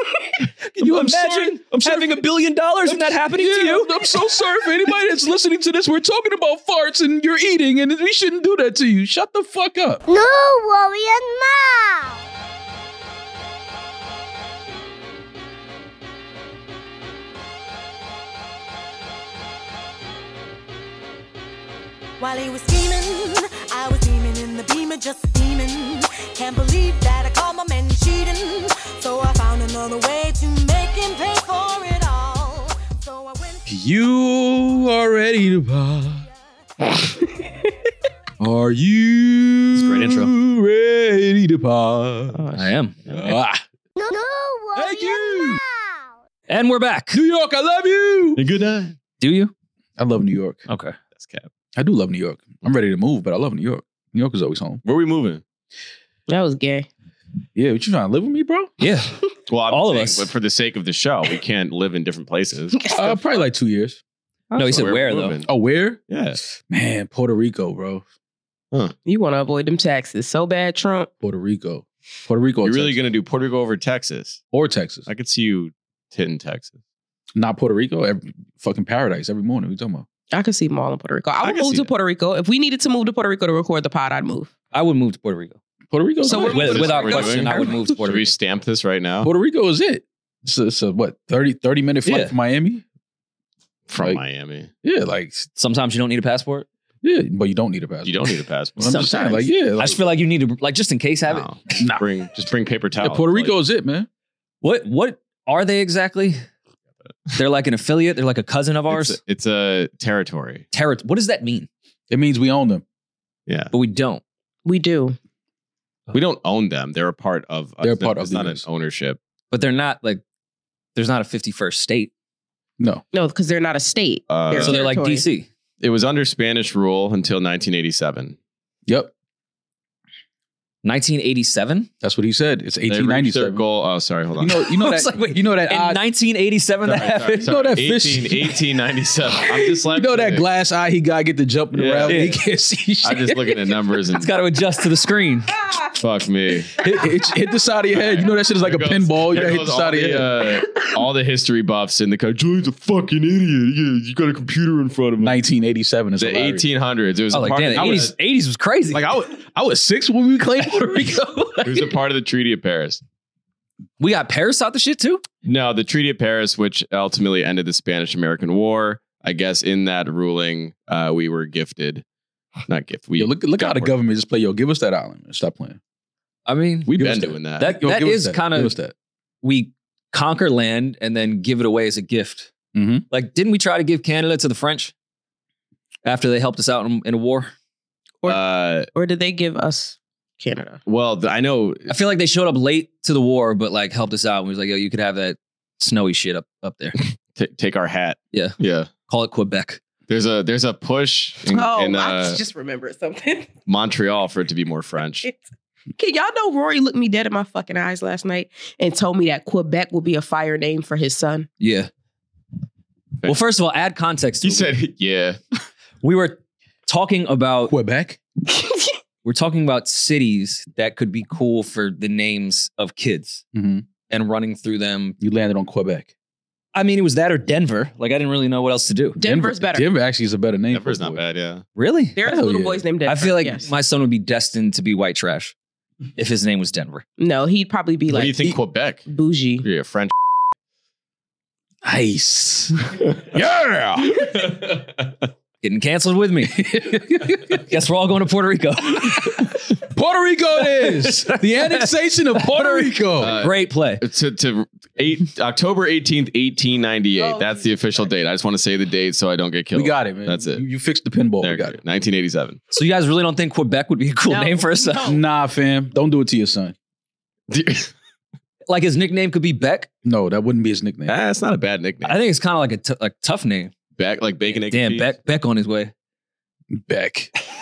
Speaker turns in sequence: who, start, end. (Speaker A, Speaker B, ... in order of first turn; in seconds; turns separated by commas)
Speaker A: 0.7-2.1, Speaker B: 0.7-4.0, Speaker A: 2.9-10.0, Speaker C: 10.1-12.2, Speaker D: 22.2-33.7, Speaker A: 33.6-36.2, Speaker A: 38.4-42.4, Speaker B: 39.7-40.3, Speaker E: 42.3-42.7, Speaker B: 42.5-43.0, Speaker A: 43.1-43.6, Speaker C: 44.0-45.8, Speaker A: 44.8-45.6, Speaker B: 46.5-47.1, Speaker A: 47.1-48.4, Speaker F: 48.4-49.0, Speaker B: 49.2-49.5, Speaker A: 50.0-50.6, Speaker B: 50.7-51.0, Speaker F: 51.1-51.5, Speaker A: 51.7-54.8, Speaker F: 54.8-55.4, Speaker E: 56.3-56.9, Speaker A: 57.5-58.7, Speaker B: 58.8-60.3, Speaker F: 59.5-62.8, Speaker E: 62.8-63.4, Speaker A: 62.9-64.0, Speaker B: 64.5-65.3, Speaker F: 64.5-65.5, Speaker A: 65.5-66.0, Speaker F: 66.1-66.4, Speaker A: 66.7-68.0, Speaker E: 69.0-71.1, Speaker A: 71.2-73.0, Speaker F: 72.6-74.4, Speaker A: 74.5-75.1, Speaker F: 75.1-76.7, Speaker A: 77.3-80.0, Speaker E: 80.3-84.5, Speaker F: 81.4-81.9, Speaker B: 84.7-85.6, Speaker A: 85.9-86.9, Speaker E: 86.2-88.0, Speaker B: 86.3-88.3, Speaker F: 86.3-89.3, Speaker A: 89.2-92.8, Speaker B: 92.0-92.3, Speaker F: 93.9-94.7, Speaker A: 94.8-95.5, Speaker B: 95.6-96.7, Speaker A: 97.0-98.2, Speaker F: 98.0-99.1, Speaker A: 98.8-100.0, Speaker E: 98.8-99.5, Speaker B: 99.8-101.5, Speaker F: 101.3-103.5, Speaker A: 101.7-102.0, Speaker A: 103.0-104.1, Speaker B: 104.6-106.4, Speaker B: 107.3-109.2, Speaker F: 108.9-110.6, Speaker B: 110.7-111.7, Speaker A: 112.1-112.8, Speaker F: 113.5-113.7, Speaker B: 113.7-114.2, Speaker E: 114.6-115.2, Speaker F: 116.1-119.2, Speaker A: 117.8-118.6, Speaker B: 119.5-120.2, Speaker B: 121.0-122.1, Speaker E: 123.1-125.2, Speaker F: 124.3-124.8, Speaker B: 124.5-125.5, Speaker F: 125.8-128.4, Speaker A: 128.9-129.1, Speaker B: 130.8-131.9, Speaker A: 132.0-133.6, Speaker F: 132.9-134.6, Speaker A: 134.4-136.0, Speaker B: 134.7-137.5, Speaker F: 136.8-140.4, Speaker A: 137.4-138.6, Speaker A: 139.5-143.4, Speaker F: 141.7-142.2, Speaker B: 142.1-142.4, Speaker F: 143.0-144.3, Speaker B: 144.1-145.6, Speaker F: 145.9-146.7, Speaker A: 146.8-150.4, Speaker F: 147.9-155.3, Speaker A: 155.2-156.6, Speaker F: 156.2-158.1, Speaker B: 157.3-159.0, Speaker A: 157.8-158.1, Speaker A: 158.9-161.9, Speaker F: 161.6-163.0, Speaker B: 164.0-165.2, Speaker F: 165.4-172.0, Speaker F: 172.7-173.9, Speaker A: 173.2-175.8, Speaker B: 176.4-176.9, Speaker A: 176.8-178.9, Speaker F: 177.0-177.7, Speaker B: 177.6-178.8, Speaker B: 179.4-182.5, Speaker A: 182.7-183.1, Speaker B: 183.1-184.9, Speaker B: 186.0-187.5, Speaker F: 188.2-188.9, Speaker E: 188.9-190.8, Speaker F: 190.8-191.9, Speaker B: 191.9-197.0, Speaker F: 197.3-198.9, Speaker B: 198.3-199.8, Speaker F: 200.1-202.4, Speaker E: 201.5-203.5, Speaker F: 203.7-205.2, Speaker E: 206.0-211.5, Speaker B: 211.6-211.9, Speaker B: 213.2-214.7, Speaker F: 214.4-215.4, Speaker B: 216.0-217.7, Speaker A: 217.7-218.2, Speaker B: 219.2-223.4, Speaker A: 223.5-223.8, Speaker B: 224.1-225.2, Speaker A: 225.2-226.1, Speaker B: 226.7-229.2, Speaker E: 229.2-229.9, Speaker A: 229.2-231.2, Speaker F: 230.7-231.6, Speaker B: 231.8-232.2, Speaker E: 232.2-233.7, Speaker A: 232.2-232.8, Speaker B: 233.1-235.5, Speaker B: 236.2-237.0, Speaker E: 237.2-239.7, Speaker F: 238.1-239.0, Speaker F: 239.6-240.1, Speaker A: 241.8-244.3, Speaker F: 244.2-245.0, Speaker B: 245.6-246.6, Speaker A: 246.5-247.6, Speaker B: 247.7-249.6, Speaker A: 249.0-253.3, Speaker B: 250.7-254.0, Speaker F: 253.2-260.6, Speaker E: 257.2-257.7, Speaker A: 259.7-261.8, Speaker F: 261.4-262.6, Speaker B: 262.7-265.1, Speaker E: 264.3-265.2, Speaker A: 265.0-266.7, Speaker F: 267.5-267.9, Speaker B: 268.7-269.9, Speaker A: 270.0-271.1, Speaker F: 271.1-272.2, Speaker B: 272.0-273.7, Speaker F: 274.0-275.1, Speaker B: 274.7-275.9, Speaker A: 276.7-277.3